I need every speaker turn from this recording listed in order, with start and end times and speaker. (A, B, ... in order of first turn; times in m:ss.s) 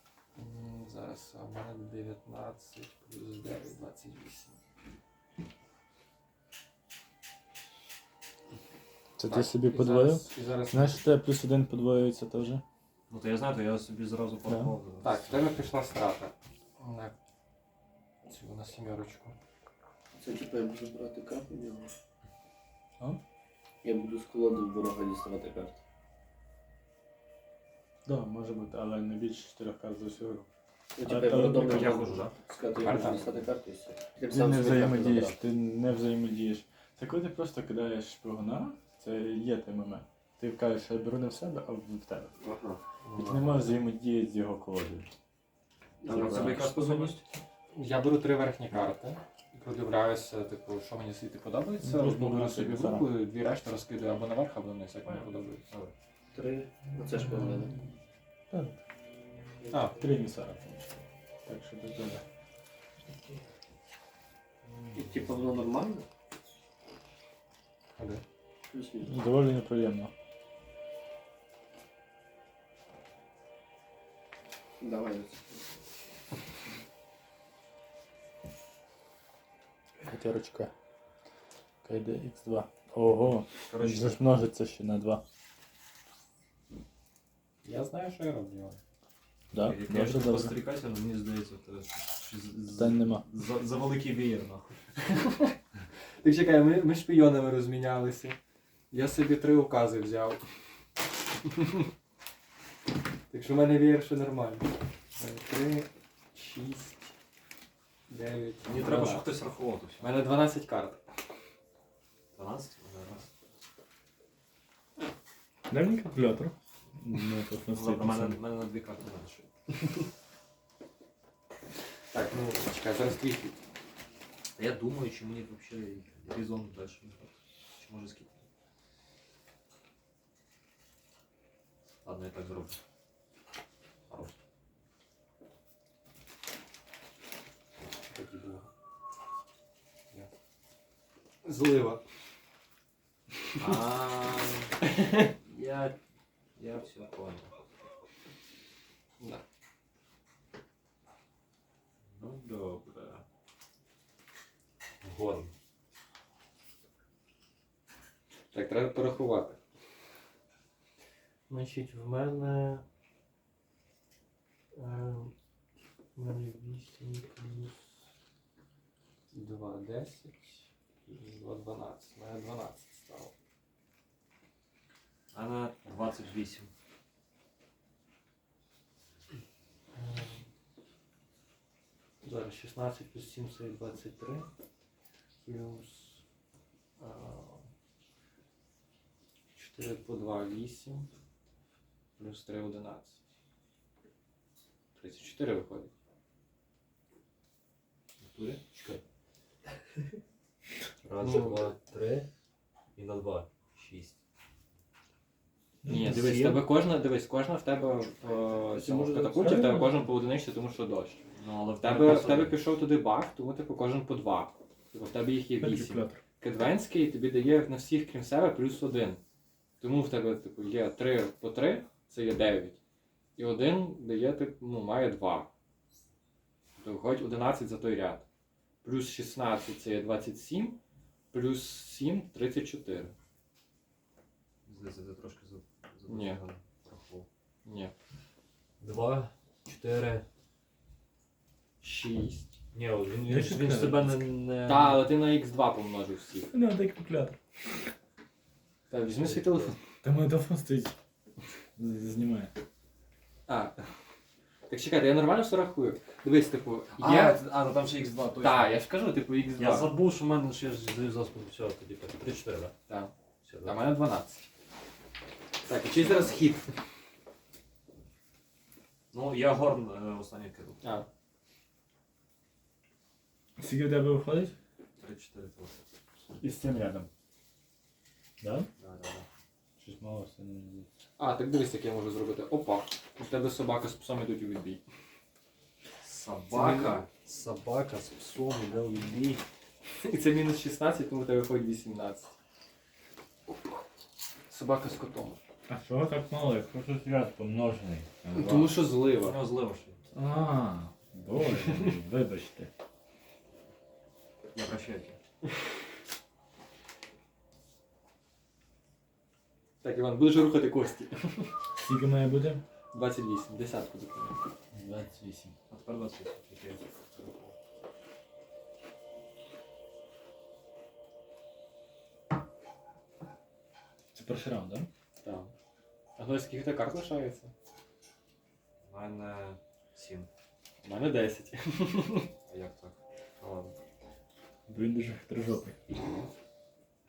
0:00.4-0:04.6 A
0:09.2-0:12.6 B
0:09.2-0:11.1 A
0:13.1-0:15.6 C
0:14.5-0:14.8 B
0:15.0-0:17.1 A
0:18.2-0:19.4 A
0:20.1-0:21.9 D
0:23.8-0:25.8 D
0:28.0-0:30.4 B
0:31.0-0:35.4 D
0:31.0-0:32.1 B
0:31.6-0:32.4 C
0:32.8-0:33.3 A
0:33.0-0:33.3 C
0:34.2-0:42.4 B
0:42.4-0:42.8 D
0:43.1-0:43.4 A
0:43.1-0:45.1 B
0:46.0-0:46.6 D
0:46.0-0:47.2 C
0:46.1-0:47.2 B
0:47.7-0:55.7 A
0:51.8-0:53.1 B
0:55.0-0:55.9 C
0:56.3-0:57.8 D
0:58.5-0:58.8 B
0:59.6-0:59.9 D
0:59.7-1:00.0 A
0:59.8-1:02.2 B
1:04.9-1:06.1 D
1:08.0-1:08.2 A
1:08.7-1:09.3 D
1:09.0-1:10.1 B
1:14.8-1:15.8 D
1:20.0-1:20.7 B
1:21.8-1:25.2 B
1:23.3-1:24.2 C
1:27.6-1:28.8 A
1:29.5-1:30.6 B
1:29.5-1:35.1 C
1:32.8-1:33.2 B
1:35.1-1:35.5 A
1:36.2-1:38.4 A
1:38.9-1:40.5 A
1:41.5-1:41.8 A
1:43.3-1:47.1 A
1:48.1-1:49.3 A
1:48.6-1:50.1 C
1:50.0-1:51.0 A
1:52.3-1:53.3 C
1:55.7-1:58.4 B
1:57.7-1:59.4 C
2:02.1-2:03.6 A
2:04.6-2:08.4 C
2:12.0-2:12.8 C
2:14.1-2:14.3 C
2:18.1-2:18.7 A
2:21.4-2:22.0 A
2:23.6-2:24.8 C
2:24.9-2:25.3 A
2:25.4-2:26.0 C
2:26.6-2:27.6 C
2:32.1-2:33.2 C
2:35.0-2:35.5 C
2:38.5-2:39.6 A
2:41.5-2:42.8 A
2:44.7-2:45.4 A
2:46.2-2:48.0 A
2:49.3-2:53.3 A
2:55.3-2:56.7 C
2:59.9-3:00.5 A
3:02.2-3:04.5 A
3:05.4-3:06.2 A
3:07.0-3:07.7 A
3:09.5-3:11.1 A
3:12.2-3:13.2 A
3:15.0-3:15.9 A
3:18.2-3:19.0 C
3:21.0-3:22.3 C
3:21.2-3:21.7 A
3:23.0-3:24.2 C
3:25.8-3:26.6 B
3:25.9-3:31.2 A
3:28.4-3:29.6 D
3:29.4-3:30.0 B
3:31.4-3:32.6 C
3:31.8-3:39.2 A
3:35.6-3:36.2 B
3:39.8-3:42.8 A
3:43.4-3:45.5 A
3:46.8-3:48.2 A
3:48.8-3:50.8 A
3:51.3-3:53.1 A
3:54.7-3:57.3 C
3:56.1-3:56.4 A
3:57.6-3:57.9 A
3:58.8-4:00.2 C
4:01.8-4:02.5 A
4:02.7-4:05.1 C
4:03.2-4:04.2 B
4:04.6-4:06.5 A
4:06.5-4:07.9 B
4:08.9-4:09.8 A
4:09.1-4:09.8 C
4:10.0-4:11.0 B
4:11.8-4:12.5 B
4:13.5-4:13.8 A
4:14.7-4:17.4 A
4:16.9-4:18.8 C
4:18.4-4:19.9 A
4:19.6-4:22.7 C
4:22.9-4:24.5 A
4:23.4-4:23.8 C
4:25.6-4:26.7 A
4:29.1-4:30.8 C
4:30.8-4:31.1 A
4:33.6-4:34.6 B
4:35.0-4:35.9 C
4:36.4-4:37.1 B
4:38.4-4:38.7 B
4:38.8-4:39.3 C
4:39.8-4:40.9 B
4:41.2-4:44.8 A
4:46.0-4:49.4 C
4:46.5-4:47.1 A
4:50.0-4:52.4 A
4:53.5-4:53.8 A
4:54.5-4:55.4 A
4:55.7-4:58.8 B
4:58.3-4:59.4 A
4:59.2-5:00.0 C
5:00.1-5:02.7 B
5:01.5-5:01.9 A
5:04.5-5:05.2 C
5:09.8-5:11.6 A
5:11.8-5:12.6 B
5:12.9-5:14.4 A
5:14.7-5:15.6 B
5:15.7-5:17.6 C
5:24.1-5:24.9 B
5:25.2-5:25.5 A
5:26.2-5:27.5 A
5:28.8-5:30.3 C
5:30.8-5:32.3 A
5:32.5-5:33.8 C
5:34.7-5:35.8 B